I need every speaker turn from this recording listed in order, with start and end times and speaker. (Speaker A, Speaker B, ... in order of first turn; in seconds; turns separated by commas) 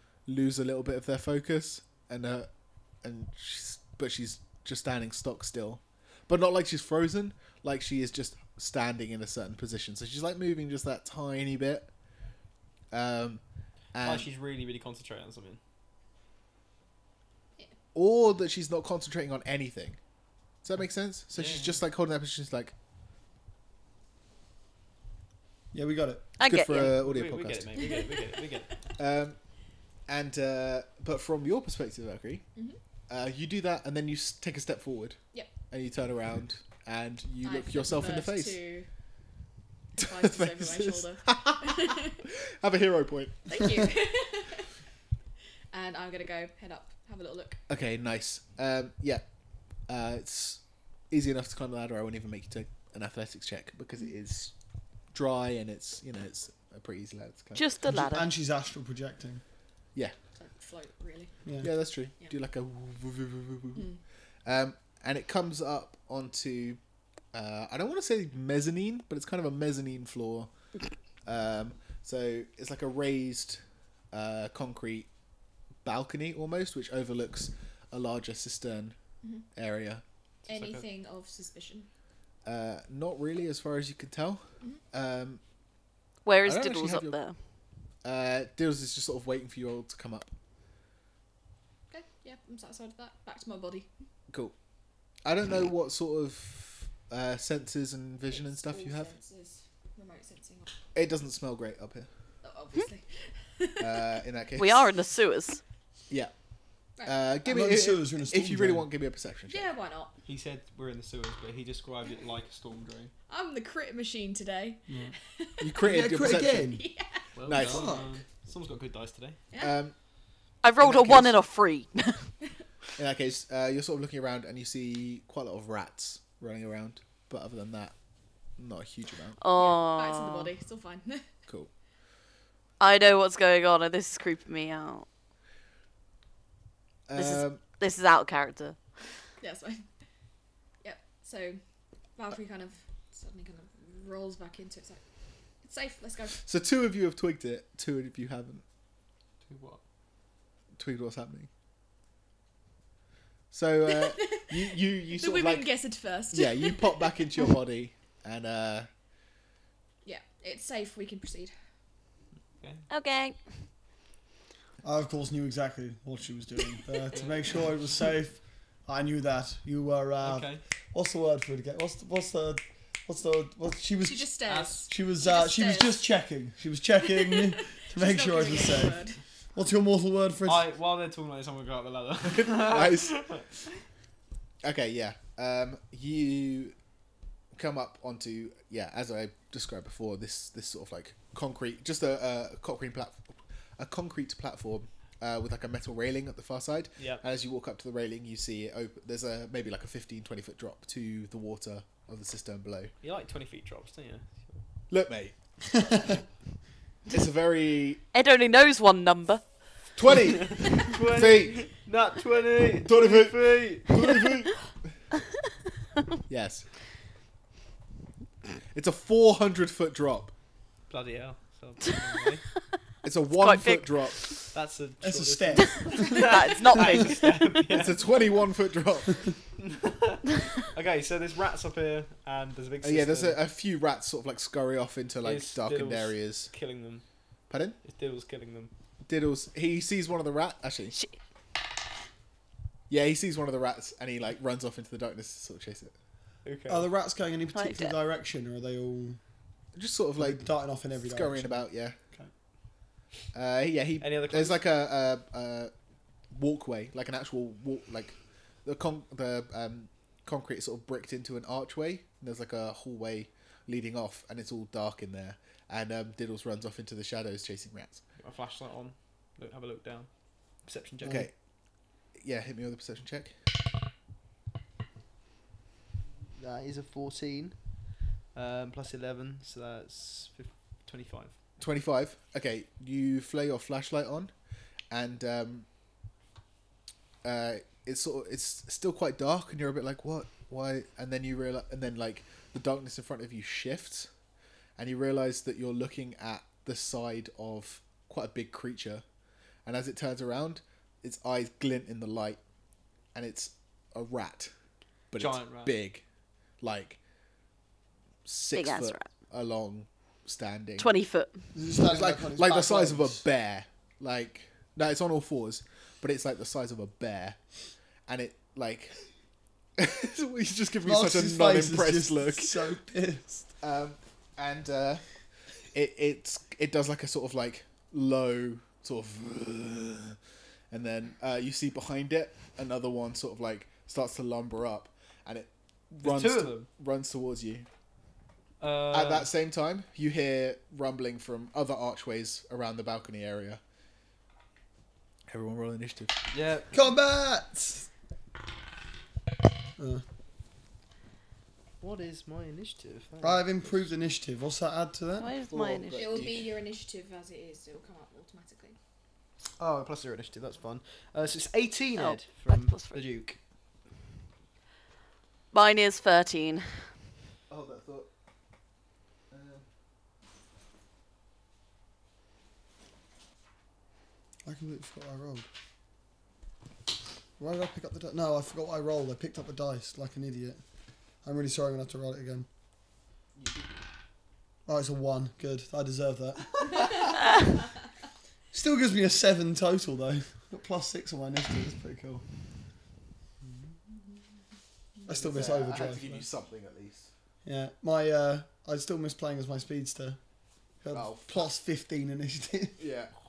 Speaker A: 0.3-2.5, Speaker A: 3.0-11.9, Speaker A: 12.9-13.4, Speaker A: 13.9-14.3, Speaker B: 14.0-15.6, Speaker A: 17.9-20.0, Speaker A: 20.6-22.7, Speaker B: 21.3-21.8, Speaker C: 25.7-26.4, Speaker D: 26.4-26.9, Speaker A: 26.4-27.8, Speaker B: 26.7-28.7, Speaker E: 27.8-28.2, Speaker A: 29.0-29.4, Speaker A: 30.1-32.5, Speaker A: 33.1-35.2, Speaker A: 35.7-38.6, Speaker E: 37.4-38.9, Speaker E: 40.0-42.2, Speaker A: 40.0-43.8, Speaker E: 43.5-44.7, Speaker E: 45.7-47.6, Speaker A: 47.7-49.2, Speaker A: 49.9-54.5, Speaker A: 55.1-57.7, Speaker D: 57.6-58.3, Speaker C: 57.9-59.4, Speaker E: 60.4-61.3, Speaker A: 61.6-63.9, Speaker E: 63.8-64.0, Speaker A: 64.5-66.8, Speaker A: 67.3-70.5, Speaker A: 71.2-75.1, Speaker A: 75.8-79.0, Speaker A: 79.5-80.0, Speaker B: 80.5-80.8, Speaker E: 80.5-81.9, Speaker A: 82.5-85.4, Speaker D: 86.2-87.4, Speaker A: 86.4-87.2, Speaker A: 88.0-90.3, Speaker E: 91.9-93.9, Speaker A: 95.2-99.1, Speaker E: 98.3-100.7, Speaker A: 101.0-102.1, Speaker E: 102.4-104.2, Speaker A: 103.8-104.9, Speaker D: 104.6-105.6, Speaker A: 107.0-109.7, Speaker C: 107.5-108.9, Speaker E: 109.5-110.2, Speaker B: 110.2-113.1, Speaker E: 113.3-117.3, Speaker C: 114.9-115.2, Speaker A: 115.6-116.8, Speaker C: 115.8-116.8, Speaker B: 117.4-119.4, Speaker A: 117.5-118.0, Speaker C: 117.5-118.1, Speaker E: 119.5-119.8, Speaker A: 119.6-120.0, Speaker D: 120.6-122.3, Speaker A: 120.8-121.4, Speaker A: 123.0-128.0, Speaker A: 128.6-129.4, Speaker D: 129.4-130.5, Speaker E: 129.5-131.3, Speaker D: 132.8-135.1, Speaker A: 137.1-137.6, Speaker D: 137.2-138.8, Speaker E: 139.4-139.8, Speaker E: 140.8-141.6, Speaker E: 142.2-145.0, Speaker E: 145.6-146.4, Speaker A: 146.4-148.6, Speaker B: 149.4-149.8, Speaker A: 150.8-151.5, Speaker A: 153.5-155.7, Speaker E: 153.9-157.5, Speaker A: 156.3-158.9, Speaker E: 160.0-161.5, Speaker B: 162.6-162.8, Speaker D: 162.9-163.4, Speaker C: 164.8-174.3, Speaker B: 167.1-167.4, Speaker B: 170.2-170.6, Speaker E: 174.0-176.1, Speaker B: 174.5-174.8, Speaker C: 174.9-180.7, Speaker E: 177.1-179.2, Speaker B: 180.5-183.5, Speaker A: 182.3-183.2, Speaker A: 184.6-186.8, Speaker A: 187.5-193.2, Speaker A: 193.8-202.9, Speaker B: 197.0-197.2, Speaker B: 203.0-204.6, Speaker A: 204.9-205.3, Speaker C: 205.7-206.1, Speaker A: 207.1-208.0, Speaker D: 208.1-209.4, Speaker A: 210.0-211.7, Speaker B: 210.5-214.0, Speaker A: 212.8-214.6, Speaker A: 216.3-216.7, Speaker A: 218.7-220.3, Speaker B: 220.9-222.4, Speaker A: 223.0-224.2, Speaker D: 223.3-224.4, Speaker B: 224.5-228.1, Speaker C: 225.0-227.1, Speaker D: 226.0-227.5, Speaker A: 227.7-229.2, Speaker B: 229.6-233.4, Speaker A: 232.8-236.5, Speaker B: 235.2-237.0, Speaker A: 237.5-237.8, Speaker B: 237.8-238.7, Speaker A: 239.0-241.0, Speaker A: 242.9-245.9, Speaker B: 246.4-246.9, Speaker C: 246.7-249.2, Speaker D: 247.5-247.9, Speaker A: 249.8-252.0, Speaker C: 250.2-252.3, Speaker A: 253.3-255.7, Speaker B: 254.0-254.6, Speaker A: 256.3-268.0, Speaker B: 268.2-270.1, Speaker B: 270.6-271.3, Speaker A: 271.0-271.3, Speaker A: 272.2-273.3, Speaker B: 276.4-281.3, Speaker A: 281.6-284.3, Speaker A: 284.9-285.7, Speaker A: 287.2-294.1, Speaker A: 294.8-299.0, Speaker A: 299.7-302.4, Speaker A: 303.1-304.5, Speaker A: 305.1-306.0, Speaker B: 305.2-305.8, Speaker A: 306.6-307.0, Speaker A: 308.2-310.9, Speaker D: 308.5-309.1, Speaker D: 310.8-311.5, Speaker C: 311.5-313.2, Speaker A: 311.8-317.4, Speaker A: 318.1-319.0, Speaker A: 319.8-322.6, Speaker C: 320.8-323.5, Speaker A: 323.6-325.0, Speaker A: 325.7-330.2, Speaker A: 330.7-337.7, Speaker B: 336.0-336.7, Speaker B: 338.6-339.3, Speaker A: 338.9-343.6, Speaker A: 345.3-346.1, Speaker B: 346.3-346.8, Speaker C: 346.7-347.9, Speaker C: 349.8-350.0, Speaker B: 351.8-353.9, Speaker C: 353.2-355.3, Speaker D: 355.2-356.0, Speaker A: 355.5-356.5, Speaker E: 355.9-358.8, Speaker B: 359.6-363.4, Speaker D: 361.9-363.0, Speaker D: 365.5-366.9, Speaker A: 367.5-368.1, Speaker A: 369.3-369.7, Speaker C: 374.4-375.5, Speaker C: 377.4-380.6, Speaker C: 381.2-382.5, Speaker A: 383.4-383.9, Speaker C: 384.7-387.0, Speaker C: 388.5-392.2, Speaker C: 395.1-396.2, Speaker A: 395.1-397.1, Speaker C: 397.4-400.2, Speaker C: 400.8-402.8, Speaker A: 400.9-401.5, Speaker A: 402.8-403.1